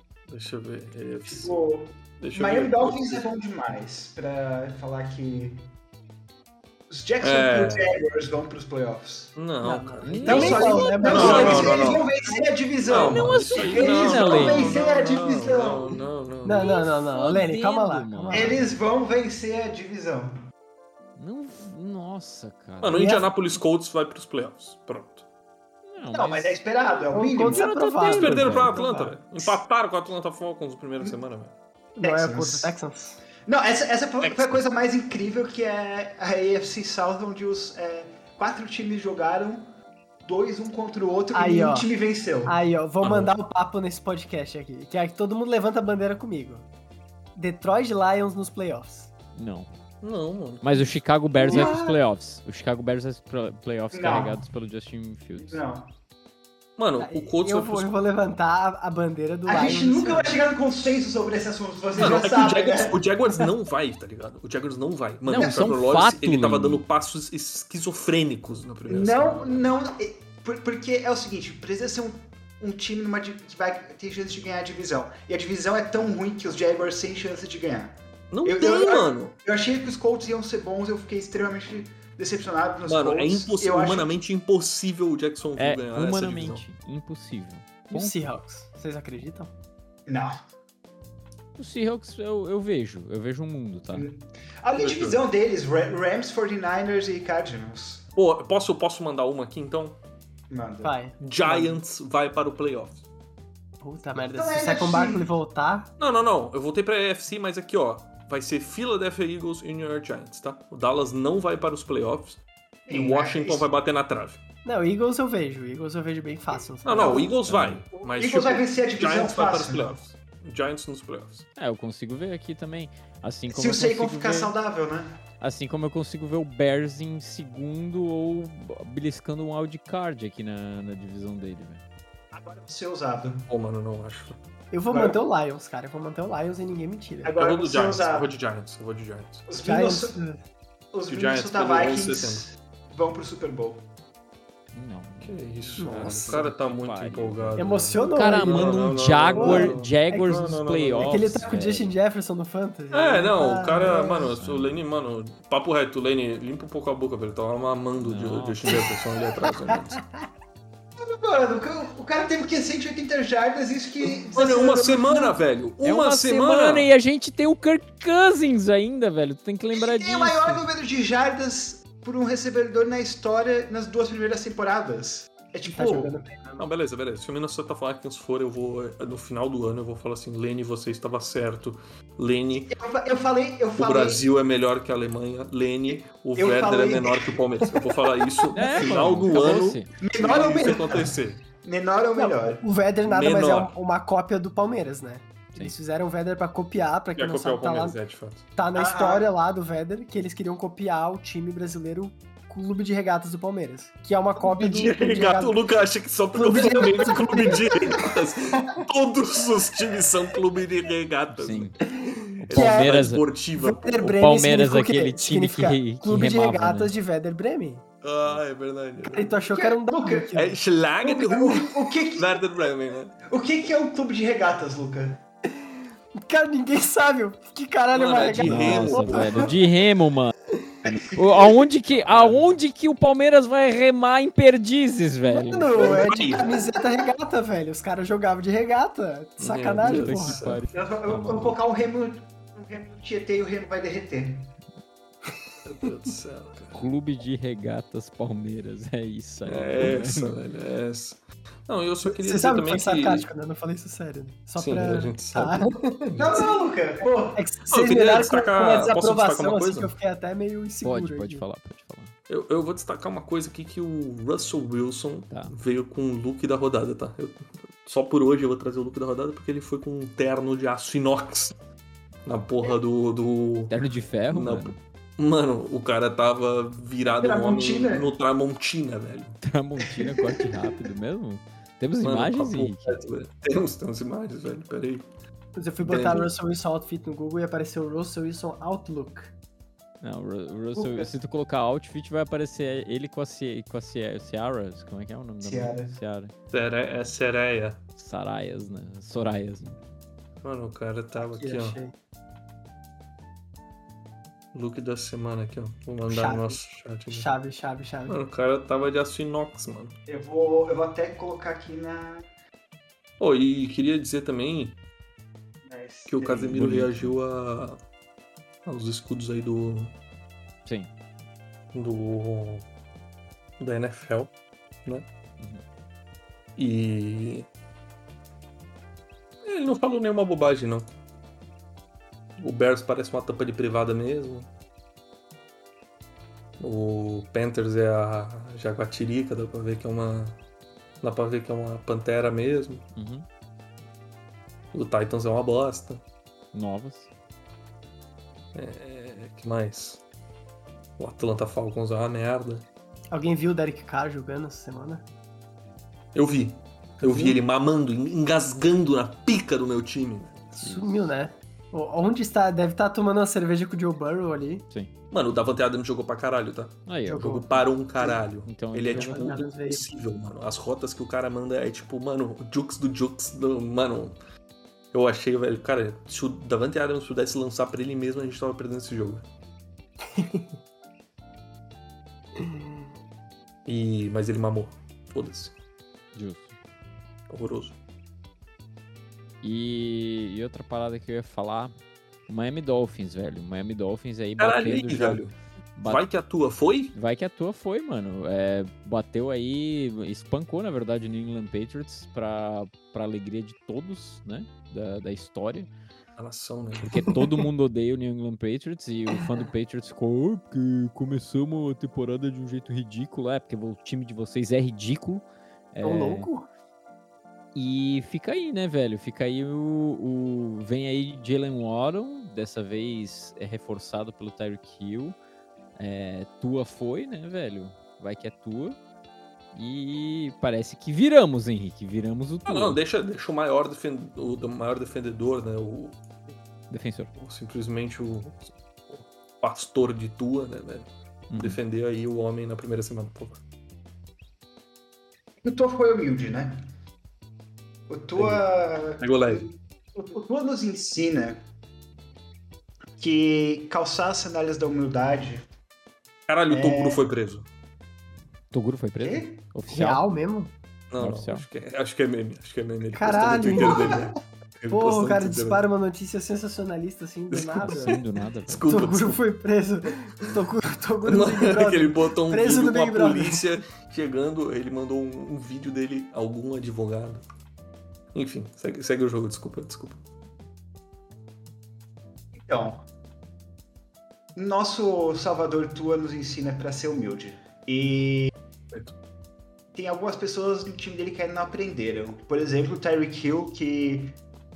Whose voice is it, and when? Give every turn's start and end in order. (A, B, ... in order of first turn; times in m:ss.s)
0:00.3-0:01.6 A
0:01.3-0:05.6 B
0:02.2-0:03.3 A
0:06.9-0:09.4 B
0:07.2-0:07.9 A
0:09.4-0:12.1 A
0:09.6-0:12.0 C
0:10.0-0:11.8 D
0:10.2-0:16.0 B
0:12.9-0:16.8 A
0:12.9-0:14.8 D
0:16.4-0:18.6 C
0:16.6-0:18.8 D
0:18.3-0:20.3 B
0:21.2-0:23.2 D
0:22.8-0:25.3 A
0:22.9-0:23.3 C
0:25.9-0:26.6 D
0:26.1-0:27.7 B
0:27.1-0:29.2 C
0:27.5-0:28.8 D
0:28.0-0:31.5 A
0:32.0-0:33.2 C
0:32.0-0:32.8 B
0:33.5-0:39.6 B
0:34.2-0:34.6 A
0:40.2-0:42.6 B
0:41.3-0:41.9 C
0:42.5-0:46.7 C
0:43.0-0:43.3 A
0:47.4-0:49.1 C
0:49.4-0:49.7 D
0:50.0-0:51.7 A
0:50.6-0:55.6 D
0:51.4-0:51.9 C
0:51.5-0:51.8 B
0:53.9-0:54.4 B
0:55.4-0:55.9 B
0:56.8-0:57.9 A
0:57.0-1:00.4 C
0:59.5-1:03.0 B
1:02.0-1:09.7 A
1:05.3-1:06.8 D
1:05.4-1:05.7 B
1:08.9-1:24.2 B
1:18.3-1:19.3 A
1:22.9-1:26.6 A
1:25.6-1:28.2 D
1:27.9-1:29.5 C
1:30.1-1:30.3 B
1:31.6-1:34.1 D
1:33.9-1:38.0 B
1:34.8-1:35.2 A
1:38.2-1:40.0 A
1:40.5-1:41.0 B
1:40.8-1:41.8 C
1:41.2-1:43.1 A
1:43.8-1:45.9 C
1:44.3-1:45.3 B
1:46.0-1:54.4 A
1:52.9-1:53.7 B
1:54.6-1:57.3 C
1:56.8-2:01.5 A
1:56.9-1:57.3 B
1:57.5-1:57.8 D
1:57.9-2:00.0 B
2:01.6-2:04.5 D
2:03.5-2:05.1 B
2:05.4-2:11.8 D
2:12.3-2:13.5 B
2:13.5-2:14.4 A
2:14.7-2:17.3 C
2:14.9-2:15.2 B
2:17.2-2:18.3 B
2:17.4-2:19.5 A
2:19.5-2:20.2 B
2:19.6-2:20.4 C
2:20.9-2:23.8 B
2:21.1-2:22.5 A
2:24.7-2:31.9 D
2:25.2-2:31.4 A
2:25.8-2:26.4 C
2:27.6-2:30.3 C
2:31.0-2:34.3 C
2:32.9-2:40.0 A
2:34.1-2:34.7 D
2:38.0-2:38.9 D
2:39.7-2:40.2 C
2:41.0-2:45.4 B
2:44.0-2:46.9 A
2:45.8-2:50.7 D
2:49.7-2:56.2 B
2:55.7-2:56.7 C
2:56.6-3:02.8 A
3:02.7-3:04.2 B
3:03.8-3:11.4 A
3:05.9-3:07.4 B
3:08.5-3:09.9 D
3:10.0-3:12.6 B
3:12.2-3:18.0 C
3:13.1-3:13.8 A
3:17.2-3:18.5 A
3:18.6-3:25.6 C
3:18.8-3:19.3 B
3:24.5-3:31.8 A
3:26.3-3:28.1 C
3:31.3-3:31.8 D
3:31.9-3:33.0 C
3:32.4-3:33.2 D
3:32.5-3:34.1 A
3:33.6-3:37.8 C
3:34.0-3:36.9 D
3:38.0-3:39.4 A
3:39.1-3:40.6 C
3:39.5-3:40.3 B
3:40.4-3:43.2 A
3:41.0-3:42.5 B
3:43.3-3:45.2 B
3:45.6-3:49.4 C
3:47.9-3:49.6 A
3:48.4-3:50.3 D
3:50.8-3:55.9 D
3:50.9-3:51.7 B
3:52.0-3:52.4 A
3:55.3-4:00.4 C
3:55.8-3:56.6 A
3:59.4-4:00.6 A
3:59.8-4:01.6 D
4:00.7-4:04.5 B
4:05.6-4:06.8 A
4:06.7-4:10.4 D
4:09.4-4:13.3 A
4:12.0-4:16.5 C
4:14.6-4:16.4 A
4:16.2-4:17.4 B
4:17.3-4:21.4 C
4:17.7-4:19.9 A
4:20.8-4:22.1 D
4:22.3-4:31.6 A
4:32.2-4:33.8 A
4:33.7-4:34.8 D
4:34.3-4:39.4 A
4:37.2-4:38.1 B
4:39.4-4:43.0 D
4:40.0-4:40.5 B
4:42.0-4:45.1 A
4:45.6-4:49.3 C
4:45.8-4:46.3 A
4:50.0-4:56.3 D
4:50.8-4:51.1 B
4:55.4-4:56.0 B
4:56.5-4:57.8 A
4:58.0-4:59.8 D
5:00.4-5:01.8 A
5:01.2-5:01.9 C
5:04.5-5:07.3 A
5:06.1-5:08.2 C
5:08.1-5:10.0 A
5:10.1-5:12.2 B
5:13.2-5:14.8 A
5:15.7-5:16.7 B
5:16.1-5:17.8 A
5:16.5-5:17.1 D
5:18.7-5:19.9 A
5:20.7-5:20.9 D
5:21.7-5:22.7 A
5:23.6-5:24.3 A
5:26.6-5:27.5 A
5:29.4-5:30.9 A
5:32.4-5:34.5 A
5:36.6-5:40.4 A
5:41.0-5:42.8 A
5:43.0-5:43.3 D
5:44.7-5:46.0 A
5:46.5-5:47.1 D
5:48.5-5:50.0 A
5:51.0-5:52.7 A
5:53.1-5:55.0 C
5:56.1-6:00.5 A
6:00.5-6:04.7 C
6:00.6-6:01.0 D
6:05.1-6:14.2 A
6:06.9-6:07.4 D
6:07.1-6:07.6 C
6:08.4-6:09.4 D
6:08.9-6:09.9 C
6:14.9-6:19.3 A
6:20.1-6:20.5 C
6:22.4-6:22.8 C
6:23.7-6:25.6 A
6:26.1-6:26.5 D
6:27.3-6:27.8 A
6:29.4-6:31.7 D
6:32.3-6:35.3 D
6:34.4-6:36.9 A
6:35.8-6:36.0 D
6:36.9-6:45.7 D
6:46.2-6:47.0 A
6:46.9-6:56.3 D
6:55.8-6:56.5 C
6:57.6-7:05.2 D
7:05.8-7:08.8 D
7:09.5-7:12.8 D
7:12.5-7:16.3 A
7:16.7-7:17.1 D
7:17.2-7:23.4 A
7:21.3-7:21.6 D
7:25.4-7:26.6 B
7:27.9-7:31.4 B
7:28.2-7:28.4 A
7:29.0-7:29.5 A
7:33.0-7:35.4 B
7:36.3-7:37.5 A
7:36.5-7:37.0 B
7:38.5-7:40.0 D
7:39.0-7:39.4 B
7:39.7-7:40.5 C
7:40.9-7:45.7 A
7:41.0-7:41.5 D
7:42.9-7:44.0 C
7:44.7-7:48.0 C
7:47.3-7:49.2 A
7:47.6-7:48.8 D
7:48.7-7:53.4 C
7:51.0-7:57.2 A
7:58.1-8:00.0 A
8:02.4-8:02.8 B
8:04.4-8:08.3 B
8:09.7-8:14.2 B